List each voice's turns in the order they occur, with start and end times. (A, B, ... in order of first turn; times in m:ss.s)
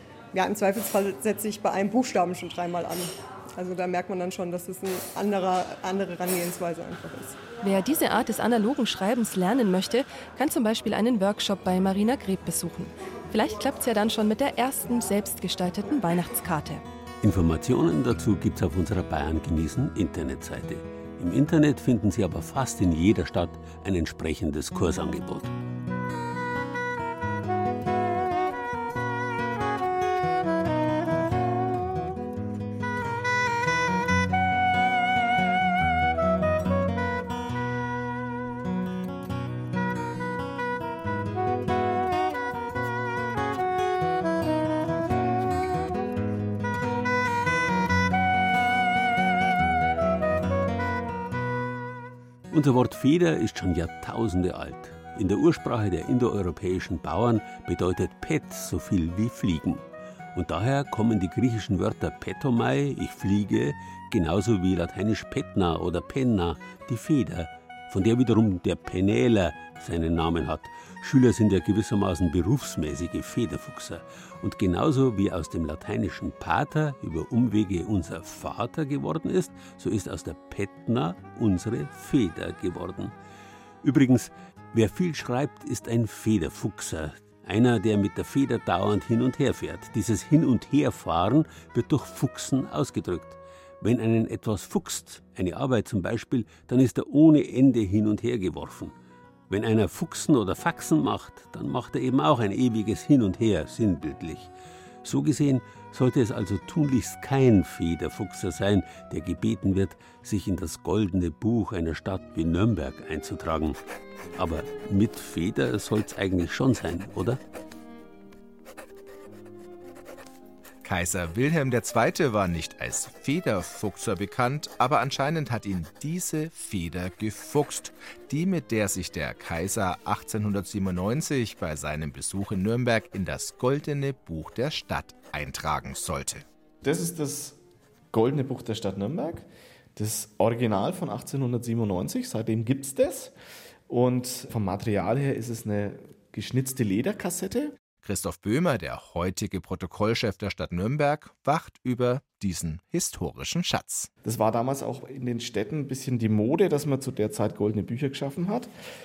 0:00.3-0:07.4 A
0:07.6-0:16.8 B
0:17.2-0:25.5 C
0:52.5-0:59.8 C
1:00.3-1:23.1 C
1:23.8-1:38.9 C
1:39.5-1:44.5 C
1:45.0-1:53.8 C
1:54.4-1:57.4 C
2:00.8-2:16.4 D
2:16.8-2:17.6 E
2:18.1-2:23.3 E
2:23.9-2:27.8 E
2:28.0-2:34.1 D
2:34.2-2:38.7 E